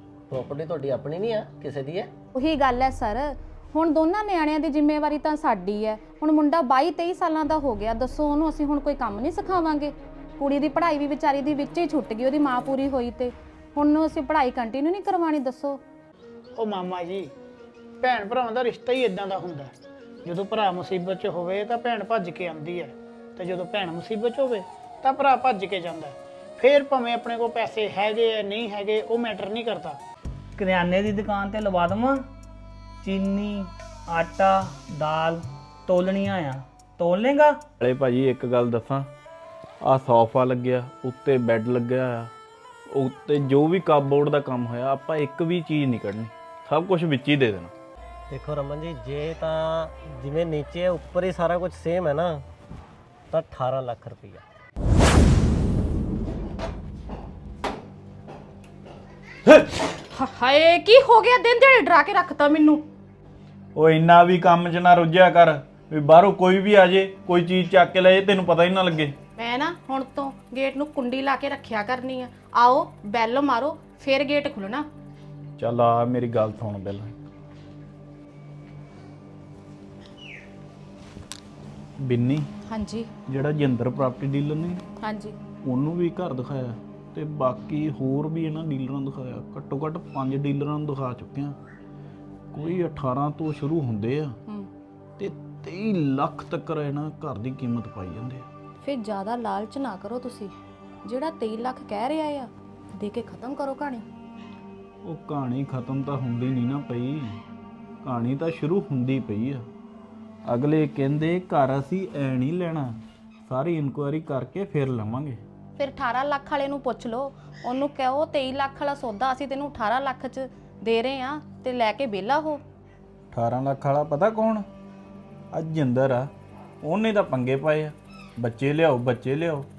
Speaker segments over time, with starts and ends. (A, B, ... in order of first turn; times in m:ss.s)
0:00.3-0:02.1 A
0:02.3-0:15.8 B
0:16.6-0:17.3 C
0:18.0-0:19.7 C
0:20.2-0:30.0 C
0:30.6-0:32.2 D
0:33.0-0:37.6 D
0:37.8-0:39.1 E
0:39.8-0:42.3 E
0:42.9-0:47.7 E
0:48.3-0:52.4 A
0:53.3-0:54.4 A
0:59.9-1:02.8 B
1:03.7-1:09.1 E
1:09.4-1:14.8 B
1:15.6-1:17.1 E
1:22.0-1:22.5 E
1:22.6-1:23.1 B
1:23.3-1:24.8 E
1:25.0-1:25.3 B
1:25.6-1:31.6 E
1:32.5-1:34.4 E
1:35.2-1:38.4 E
1:38.8-1:40.5 B
1:41.0-1:44.0 B
1:45.0-1:47.4 E
1:48.0-1:49.6 E
1:50.5-1:52.9 E
1:53.5-1:55.4 E
1:55.8-2:02.6 B
2:03.3-2:04.6 E
2:05.5-2:06.3 E
2:06.8-2:09.7 E